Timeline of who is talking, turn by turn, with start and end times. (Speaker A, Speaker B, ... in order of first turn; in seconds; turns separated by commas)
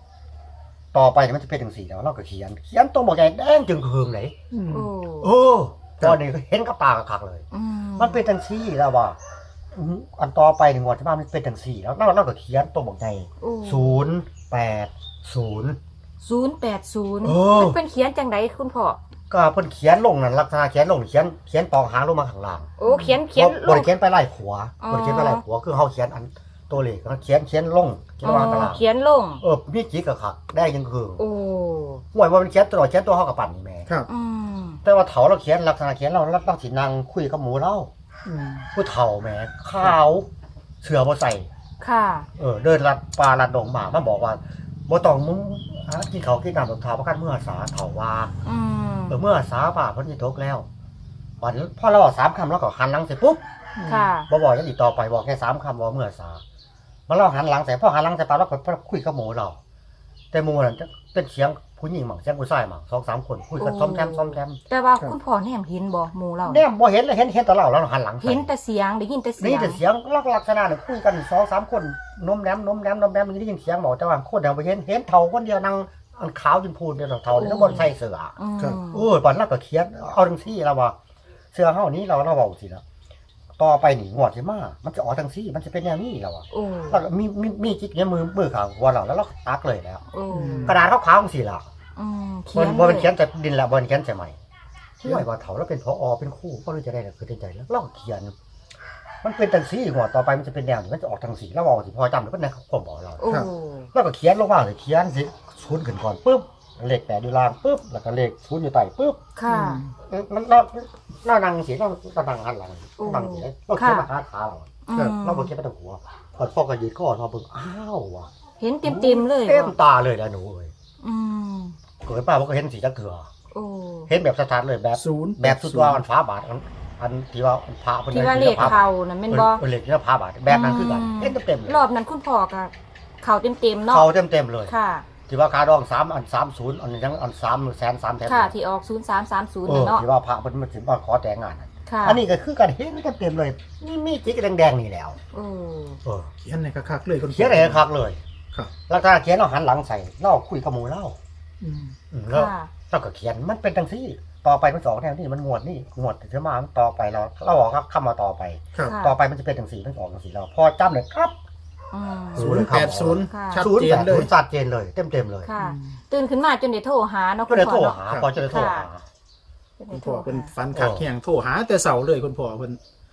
Speaker A: 0.9-4.3, Speaker B: 4.5-4.9, Speaker C: 4.7-5.3, Speaker A: 5.2-7.5, Speaker C: 7.5-8.2, Speaker A: 8.0-9.2, Speaker A: 9.7-15.8, Speaker C: 13.4-13.9, Speaker C: 16.2-19.0, Speaker A: 17.2-17.8, Speaker A: 19.3-28.8, Speaker C: 22.8-23.9, Speaker C: 24.8-25.4, Speaker C: 28.2-29.4, Speaker A: 29.4-31.2, Speaker C: 31.2-32.0, Speaker A: 32.1-33.9, Speaker C: 34.1-34.8, Speaker A: 34.8-37.9, Speaker B: 38.2-38.7, Speaker A: 38.7-40.3, Speaker A: 40.8-41.5, Speaker C: 41.8-42.3, Speaker A: 42.4-48.3, Speaker C: 48.4-49.2, Speaker A: 49.1-50.7, Speaker A: 51.4-53.4, Speaker C: 53.8-54.3, Speaker A: 54.1-56.4, Speaker A: 57.1-59.6, Speaker A: 60.3-64.6, Speaker C: 63.6-66.6, Speaker A: 66.5-68.5, Speaker C: 68.2-69.8, Speaker A: 69.4-78.3, Speaker C: 77.3-79.1, Speaker A: 78.9-81.0, Speaker A: 81.5-82.8, Speaker A: 83.6-90.0, Speaker C: 86.5-87.0, Speaker C: 90.1-90.7, Speaker B: 90.3-90.8, Speaker A: 90.6-91.6, Speaker C: 92.0-93.1, Speaker A: 92.5-94.4, Speaker A: 95.0-98.3, Speaker A: 99.2-103.4, Speaker C: 103.2-103.9, Speaker A: 103.9-109.2, Speaker C: 109.3-109.8, Speaker B: 109.5-109.9, Speaker A: 110.0-118.3, Speaker C: 113.0-114.1, Speaker C: 114.8-115.5, Speaker C: 118.6-119.7, Speaker A: 118.8-120.7, Speaker C: 121.0-121.8, Speaker A: 122.0-123.3, Speaker C: 123.5-124.1, Speaker A: 124.1-131.8, Speaker B: 125.0-126.0, Speaker C: 128.1-129.6, Speaker C: 130.5-134.1, Speaker A: 133.9-134.7, Speaker C: 134.7-135.1, Speaker A: 135.3-138.5, Speaker C: 138.2-140.0, Speaker A: 139.7-145.2, Speaker C: 141.8-142.2, Speaker C: 145.3-146.0, Speaker A: 146.0-146.3, Speaker B: 146.4-147.8, Speaker A: 147.2-148.2, Speaker A: 148.9-151.2, Speaker B: 151.6-151.9, Speaker A: 152.1-161.3, Speaker C: 152.3-152.7, Speaker C: 158.8-159.2, Speaker C: 161.9-162.4, Speaker B: 162.3-164.3, Speaker A: 162.3-165.5, Speaker C: 163.3-163.7, Speaker C: 165.4-168.9, Speaker B: 165.6-166.0, Speaker A: 167.5-169.0, Speaker C: 169.8-170.5, Speaker B: 169.9-172.8, Speaker A: 170.7-171.1